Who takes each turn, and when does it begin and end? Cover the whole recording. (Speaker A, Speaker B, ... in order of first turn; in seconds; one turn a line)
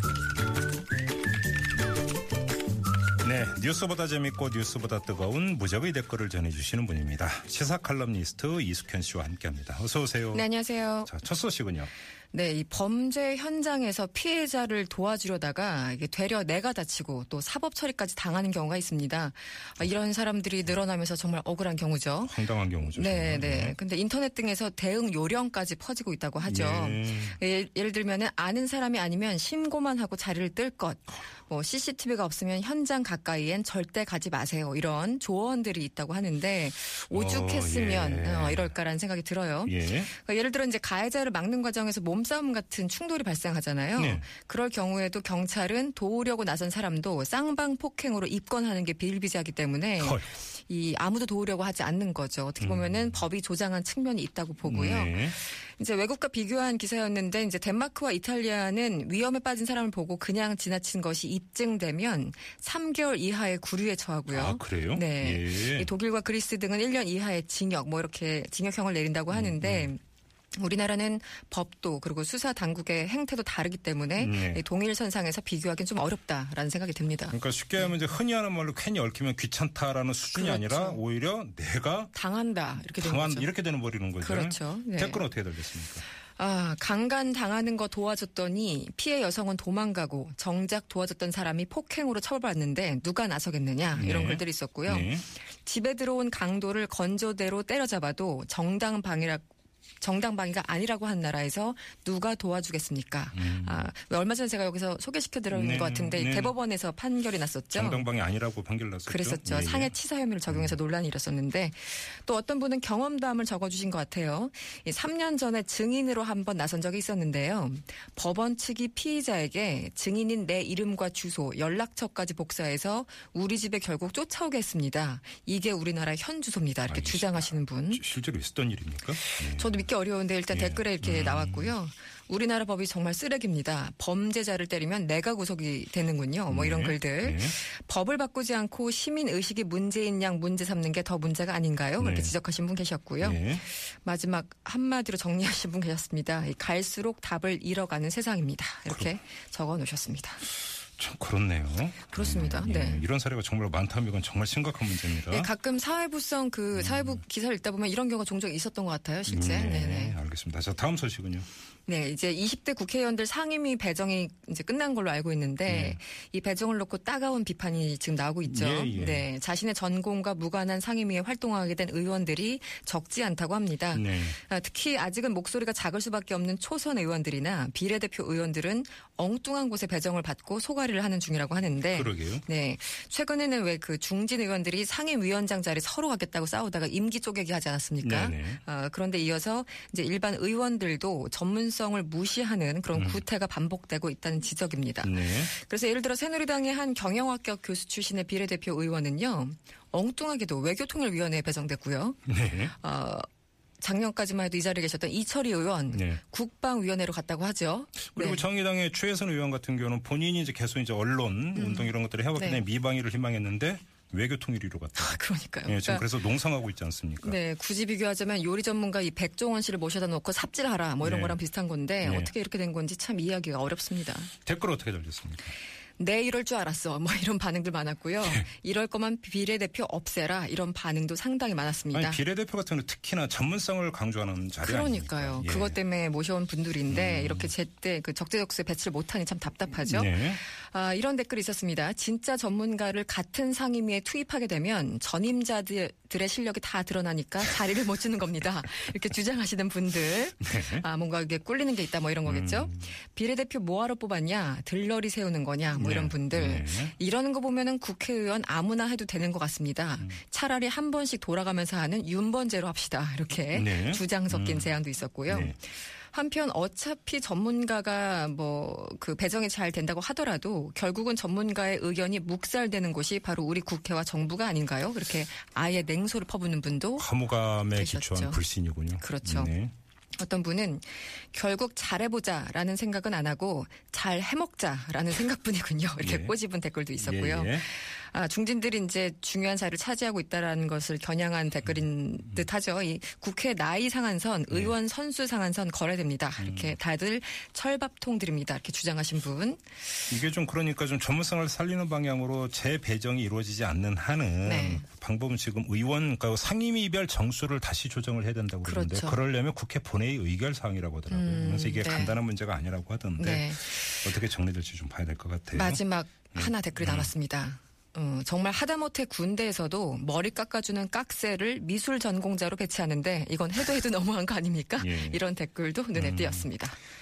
Speaker A: 3.2-10.5
Speaker B: 10.3-11.1
Speaker A: 11.1-11.9
Speaker B: 12.3-70.0
Speaker A: 22.2-23.8
Speaker A: 26.4-27.4
Speaker A: 37.1-38.7
Speaker A: 39.6-40.1
Speaker A: 44.0-44.2
Speaker A: 50.0-50.3
Speaker A: 52.6-53.2
Speaker A: 54.6-55.4
Speaker A: 64.3-65.9
Speaker A: 69.3-69.9
Speaker B: 70.5-77.9
Speaker A: 74.2-74.6
Speaker A: 77.3-82.1
Speaker B: 80.3-81.0
Speaker B: 82.1-83.5
Speaker A: 82.8-86.0
Speaker B: 84.2-85.2
Speaker B: 86.3-99.5
Speaker A: 93.9-95.2
Speaker B: 100.0-108.0
Speaker A: 103.3-103.9
Speaker A: 105.5-106.5
Speaker A: 107.7-110.0
Speaker B: 109.1-128.0
Speaker A: 110.5-110.7
Speaker A: 126.9-129.9
Speaker B: 129.3-150.4
Speaker A: 130.5-131.7
Speaker A: 136.5-137.5
Speaker A: 142.0-142.3
Speaker A: 143.2-143.6
Speaker A: 151.0-155.5
Speaker B: 152.1-153.0
Speaker B: 155.2-160.2
Speaker A: 156.7-157.2
Speaker A: 159.3-161.5
Speaker B: 161.8-203.2
Speaker A: 165.7-166.0
Speaker A: 168.4-169.3
Speaker A: 173.9-174.3
Speaker A: 181.9-182.4
Speaker A: 188.0-188.6
Speaker A: 192.9-193.2
Speaker A: 195.0-195.5
Speaker A: 202.3-202.7
Speaker B: 203.8-208.4
Speaker A: 205.9-206.2
Speaker A: 208.1-217.4
Speaker B: 211.6-212.6
Speaker B: 214.9-216.1
Speaker B: 217.2-224.3
Speaker A: 221.0-221.4
Speaker A: 222.0-222.3
Speaker A: 224.4-225.5
Speaker B: 226.0-232.2
Speaker A: 231.9-235.8
Speaker B: 234.6-277.1
Speaker A: 236.9-237.5
Speaker A: 239.8-240.4
Speaker A: 250.4-250.8
Speaker A: 252.2-252.9
Speaker A: 255.8-256.9
Speaker A: 263.5-264.7
Speaker A: 265.3-265.5
Speaker A: 277.0-279.7
Speaker B: 277.7-278.4
Speaker B: 279.0-279.5
Speaker B: 280.1-300.1
Speaker A: 286.0-286.4
Speaker A: 287.0-287.7
Speaker A: 296.4-296.8
Speaker A: 300.1-315.8
Speaker B: 304.4-304.8
Speaker B: 308.6-309.2
Speaker B: 311.1-312.2
Speaker B: 313.2-314.1
Speaker B: 315.5-326.8
Speaker A: 316.3-317.1
Speaker A: 324.8-325.2
Speaker A: 325.9-326.5